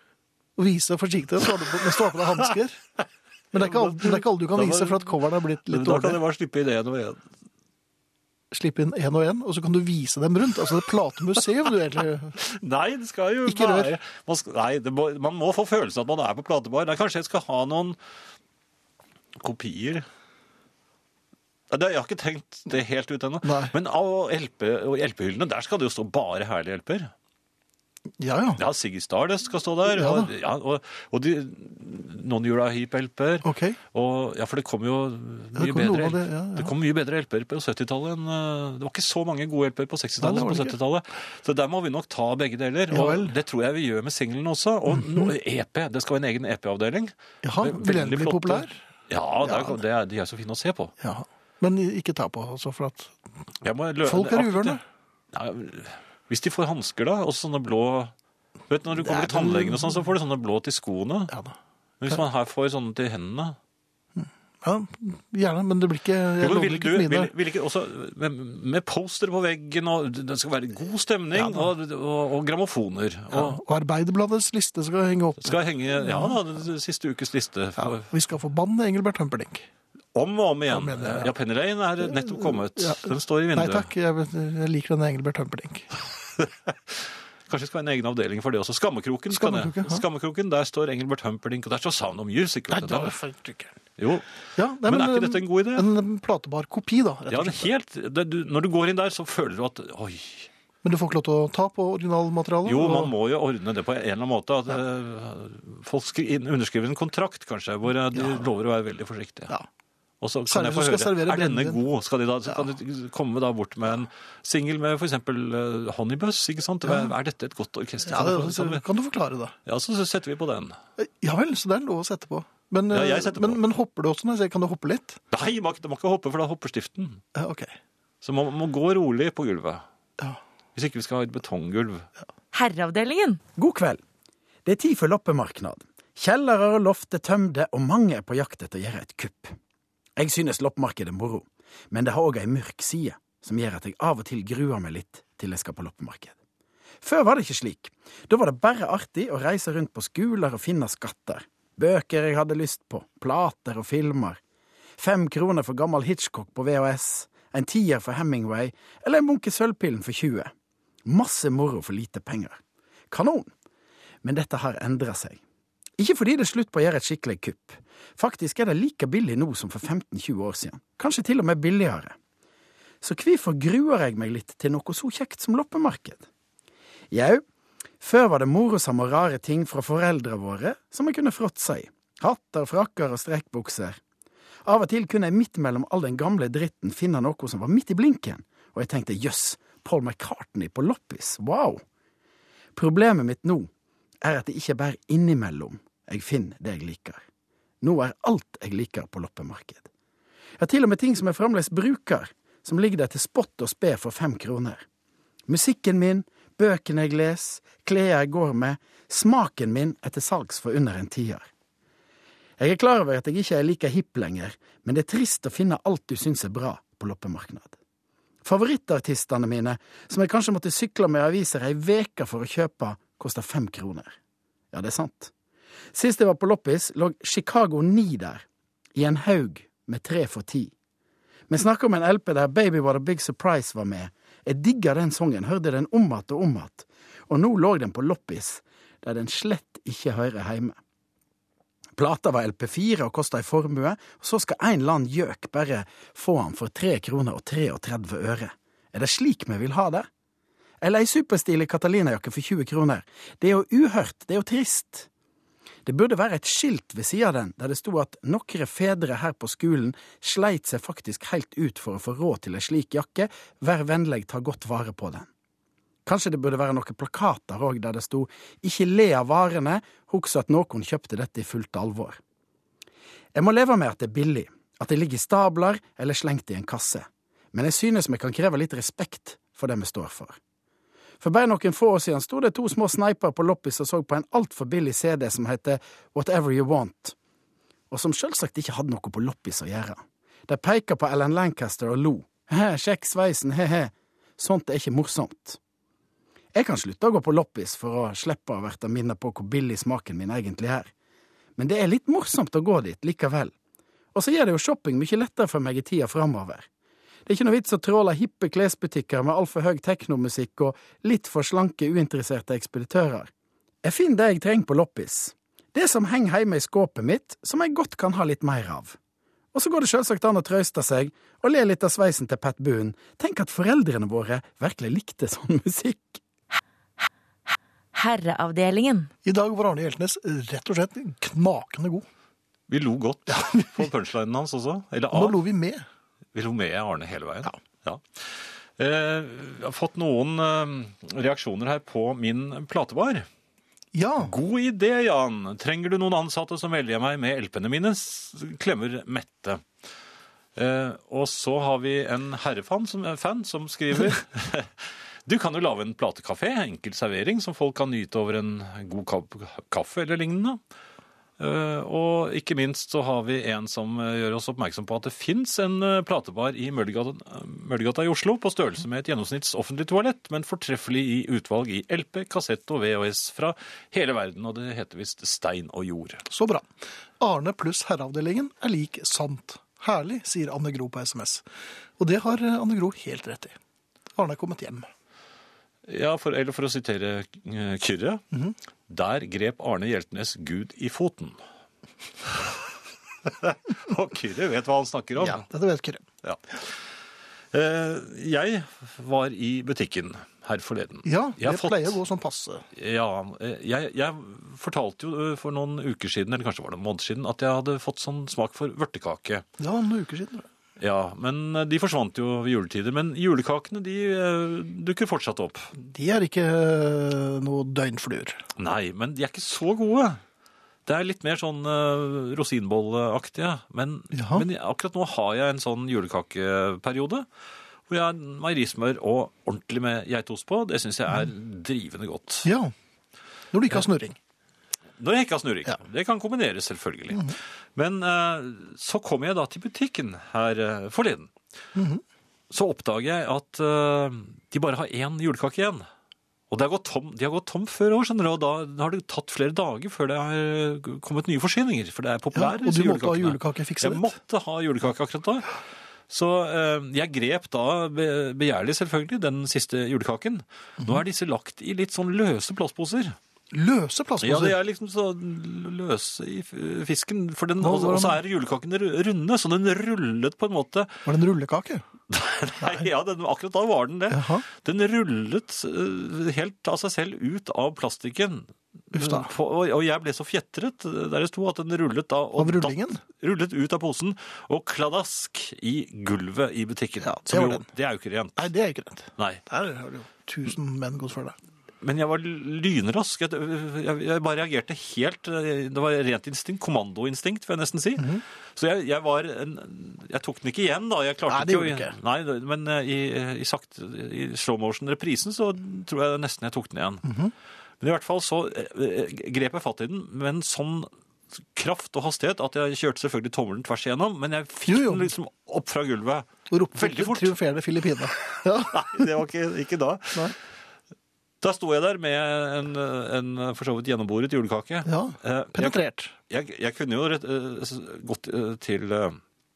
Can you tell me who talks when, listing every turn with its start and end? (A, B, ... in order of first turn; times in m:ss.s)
0:00.6-0:02.8 A
0:03.5-0:06.2 A
0:03.5-0:07.2 B
0:08.5-0:12.4 A
0:12.4-0:18.0 B
0:13.5-0:14.0 A
0:19.4-0:20.1 B
0:21.7-0:27.1 B
0:23.4-0:23.7 A
0:28.2-0:28.6 A
0:28.6-0:50.9 B
0:29.9-0:30.3 A
0:33.4-0:33.8 A
0:35.6-0:36.7 A
0:40.2-0:40.8 A
0:42.9-0:43.3 A
0:47.4-0:48.8 A
0:49.4-0:49.8 A
0:51.0-0:53.2 A
0:53.6-0:54.8 B
0:54.0-0:54.8 A
0:55.3-0:58.1 B
0:58.7-1:01.3 B
0:59.0-1:00.0 A
1:01.3-1:01.6 A
1:02.0-1:03.6 B
1:04.2-1:07.3 A
1:06.4-1:13.6 B
1:11.4-1:11.7 A
1:13.3-1:16.4 A
1:15.4-1:18.1 B
1:17.8-1:19.7 A
1:20.1-1:23.9 B
1:20.7-1:21.3 A
1:22.2-1:25.9 A
1:26.4-1:33.2 B
1:29.3-1:30.0 A
1:32.7-1:33.8 A
1:34.0-1:34.3 B
1:34.6-1:37.7 A
1:34.8-1:35.9 B
1:37.3-1:40.5 B
1:40.8-1:43.1 A
1:42.6-1:49.5 B
1:48.1-1:48.4 A
1:50.2-1:58.8 B
1:50.5-1:51.8 A
1:58.1-1:59.6 A
1:59.7-2:00.8 B
2:01.0-2:05.2 A
2:02.9-2:03.6 B
2:05.3-2:07.2 B
2:07.4-2:07.7 A
2:08.2-2:09.8 B
2:10.8-2:12.1 B
2:12.5-2:13.4 C
2:13.6-2:14.0 D
2:14.6-2:19.6 D
2:20.2-2:26.4 D
2:27.0-2:34.4 D
2:35.0-2:40.5 D
2:41.1-2:42.6 D
2:43.1-2:43.5 D
2:44.2-2:45.4 D
2:46.0-2:52.1 D
2:53.0-2:56.3 D
2:57.1-2:57.4 D
2:58.0-3:04.0 D
3:04.6-3:11.8 D
3:12.8-3:13.7 D
3:14.2-3:17.2 D
3:17.8-3:19.9 D
3:20.6-3:24.8 D
3:25.5-3:31.5 D
3:32.6-3:37.7 D
3:38.4-3:44.1 D
3:44.7-3:45.3 D
3:45.9-3:48.4 D
3:49.0-3:50.7 D
3:51.5-4:00.8 D
4:02.0-4:10.1 D
4:10.8-4:15.1 D
4:15.8-4:25.3 D
4:26.1-4:32.2 D
4:33.3-4:40.4 D
4:41.2-4:47.2 D
4:47.9-4:55.6 D
4:56.5-5:00.9 D
5:01.6-5:03.5 D
5:04.1-5:06.7 D
5:07.3-5:13.3 D
5:13.8-5:19.0 D
5:19.5-5:26.2 D
5:28.0-5:29.1 C
5:29.2-5:32.0 A
5:32.7-5:35.4 B
5:33.3-5:33.8 A
5:35.1-5:35.8 A
5:36.3-5:43.3 B
5:43.9-5:44.3 A
5:44.2-5:49.6 B
5:50.6-6:00.6 B
6:01.4-6:16.2 B
6:16.3-6:16.7 A
6:17.2-6:21.4 A
6:22.0-6:23.6 A
6:24.2-6:24.9 A
6:25.9-6:28.2 B
6:28.9-6:31.4 B
6:32.2-6:32.6 B
6:33.2-6:35.4 B
6:35.2-6:36.0 A
6:36.2-6:36.7 B
6:37.5-6:42.0 B
6:41.0-6:42.7 A
6:42.7-6:49.5 B
6:49.6-6:50.5 A
6:50.8-6:55.7 B
6:55.8-6:58.4 A
6:58.6-7:00.2 B
7:00.9-7:07.3 B
7:04.1-7:04.5 A
7:07.9-7:12.5 B
7:12.4-7:12.7 A
7:13.5-7:14.2 A
7:15.0-7:21.3 B
7:21.8-7:22.0 A
7:22.5-7:25.9 B
7:26.5-7:35.5 B
7:32.3-7:34.1 A
7:36.1-7:43.2 B
7:43.5-7:44.6 A
7:44.2-7:51.0 B
7:47.6-7:48.2 A
7:51.0-7:51.8 A
7:52.1-8:08.5 B
7:54.1-7:54.5 A
7:58.9-7:59.3 A
8:02.4-8:03.0 A
8:07.0-8:07.7 A
8:08.4-8:11.4 A
8:09.2-8:09.4 B
8:11.8-8:27.1 B
8:18.0-8:18.2 A
8:21.3-8:21.9 A
8:27.0-8:27.3 A
8:27.8-8:30.9 B
8:31.5-8:37.4 B
8:34.7-8:35.1 A
8:36.5-8:38.9 A
8:38.7-8:40.3 B
8:41.4-8:45.8 B
8:44.8-8:46.2 A
8:46.3-8:49.2 B